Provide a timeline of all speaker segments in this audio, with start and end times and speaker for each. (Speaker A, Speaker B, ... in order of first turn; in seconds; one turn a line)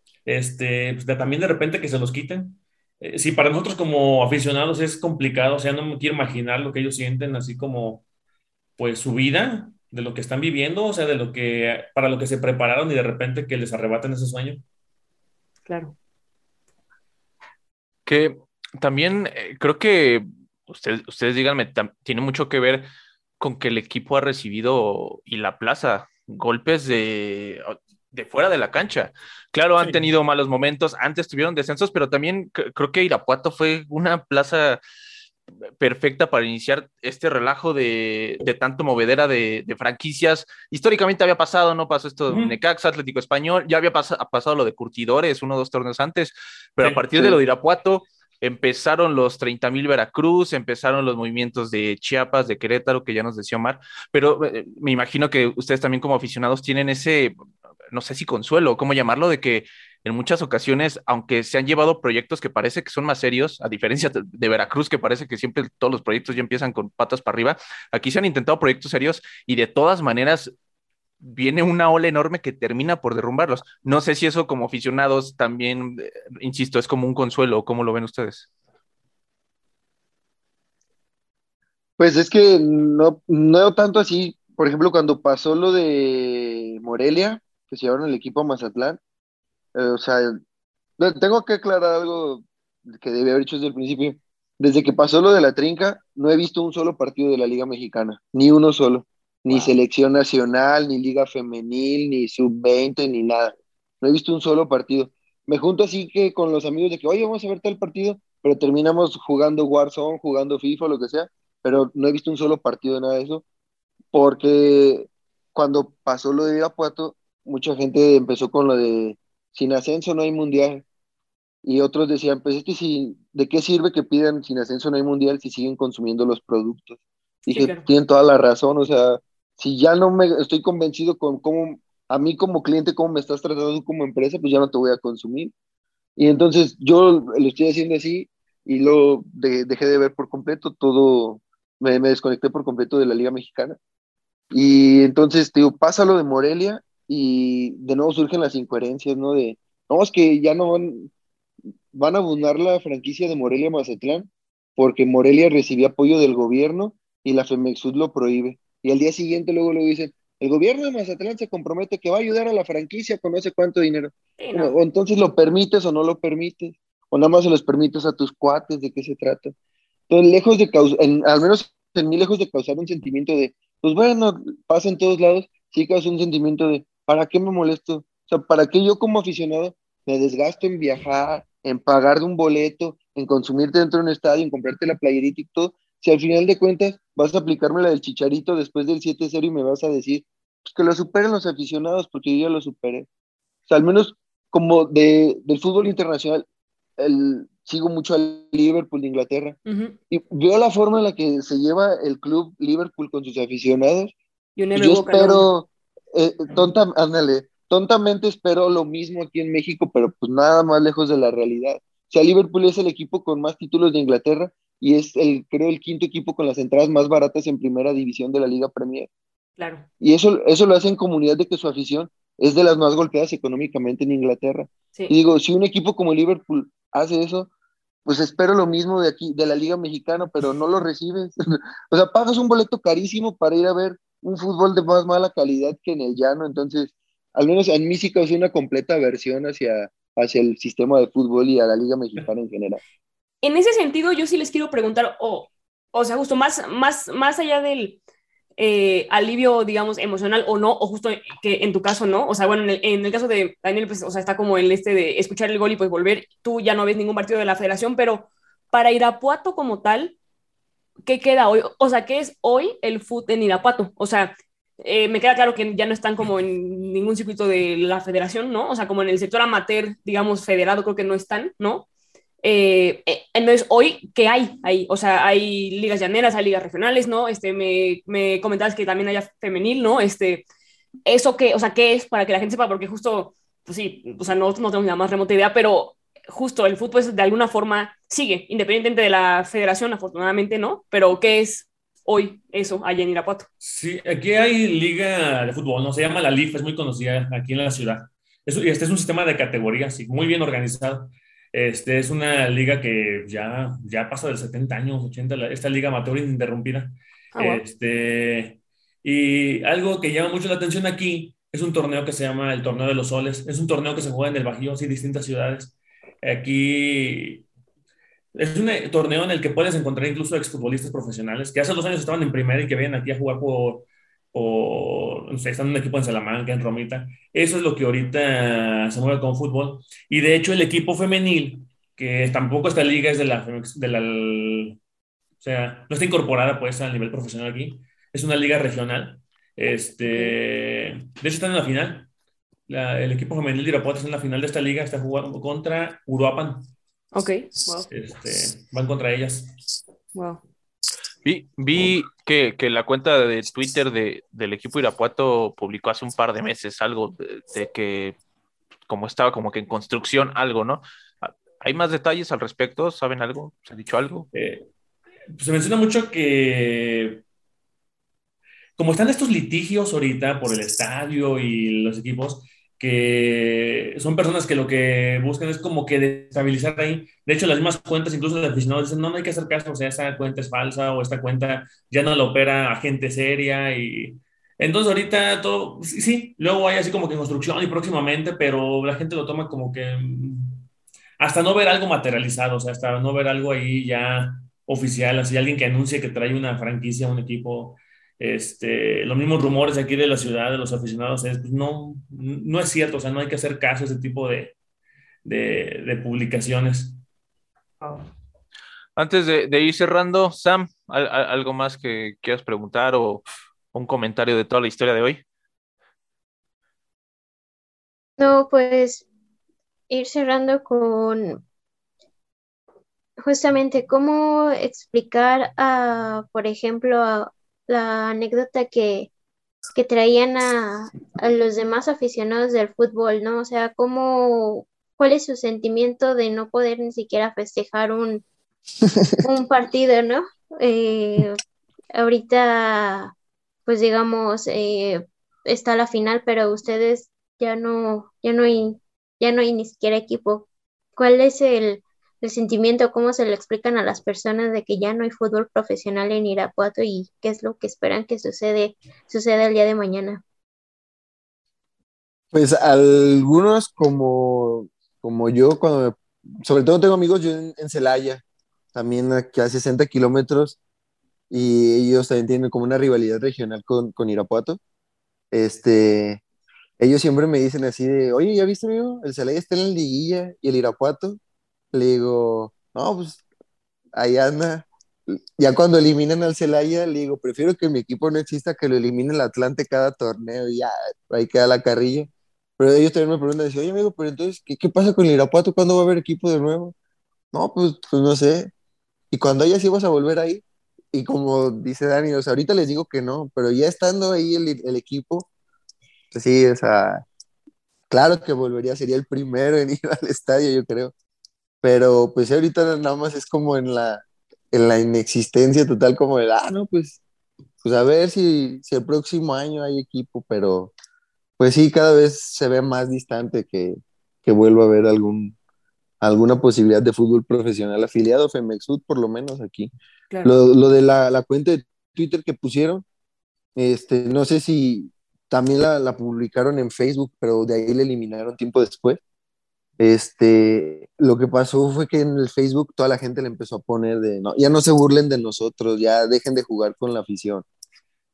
Speaker A: 0.2-8.0
Speaker A: 8.8-14.6
Speaker B: 15.7-15.9
Speaker C: 18.1-22.9
Speaker C: 23.4-34.8
Speaker A: 29.8-30.0
Speaker C: 35.8-57.4
Speaker A: 42.3-42.5
Speaker A: 46.8-47.3
Speaker C: 57.9-70.5
Speaker C: 71.2-78.5
Speaker D: 82.0-89.0
Speaker D: 89.7-90.4
Speaker D: 91.0-113.4
Speaker B: 99.5-99.7
Speaker D: 114.1-120.8
Speaker D: 121.6-135.5
Speaker B: 127.5-127.8
Speaker D: 136.2-143.8
Speaker D: 144.5-151.1
Speaker D: 151.9-169.5
Speaker B: 164.4-164.7
Speaker D: 170.1-193.1
Speaker D: 193.7-196.4
Speaker D: 197.0-199.6
Speaker B: 199.7-199.9
Speaker D: 200.1-204.1
Speaker B: 204.6-205.5
Speaker D: 204.7-219.1
Speaker B: 219.6-219.9
Speaker D: 220.0-227.5
Speaker D: 228.1-242.8
Speaker B: 243.4-248.0
Speaker B: 248.6-260.1
Speaker B: 261.0-271.9
Speaker B: 272.4-280.4
Speaker B: 281.1-293.5
Speaker A: 293.6-317.4
Speaker B: 307.3-307.6
Speaker A: 318.3-334.8
Speaker A: 335.4-342.1
Speaker B: 340.1-340.4
Speaker A: 342.7-346.7
Speaker B: 347.1-347.9
Speaker A: 347.9-349.6
Speaker B: 350.1-350.4
Speaker C: 351.2-358.2
Speaker C: 358.9-364.3
Speaker A: 364.3-364.6
Speaker A: 365.4-367.2
Speaker A: 368.8-390.7
Speaker A: 391.2-404.5
Speaker A: 405.2-407.0
Speaker B: 407.8-408.1
Speaker C: 409.0-415.2
Speaker E: 418.2-419.1
Speaker E: 419.9-421.4
Speaker E: 423.2-429.1
Speaker E: 429.7-438.2
Speaker E: 439.2-441.4
Speaker E: 441.9-443.1
Speaker E: 443.7-460.2
Speaker D: 462.3-468.2
Speaker D: 468.7-470.6
Speaker D: 471.3-474.6
Speaker D: 475.3-476.2
Speaker D: 476.8-481.2
Speaker D: 481.7-483.2
Speaker D: 483.9-496.7
Speaker D: 497.3-498.5
Speaker D: 499.1-505.3
Speaker D: 506.1-507.0
Speaker D: 507.9-510.9
Speaker D: 511.6-517.0
Speaker D: 517.6-520.7
Speaker D: 521.4-525.4
Speaker D: 526.0-529.7
Speaker B: 530.1-530.4
Speaker D: 530.2-532.8
Speaker D: 533.5-539.0
Speaker D: 539.8-547.5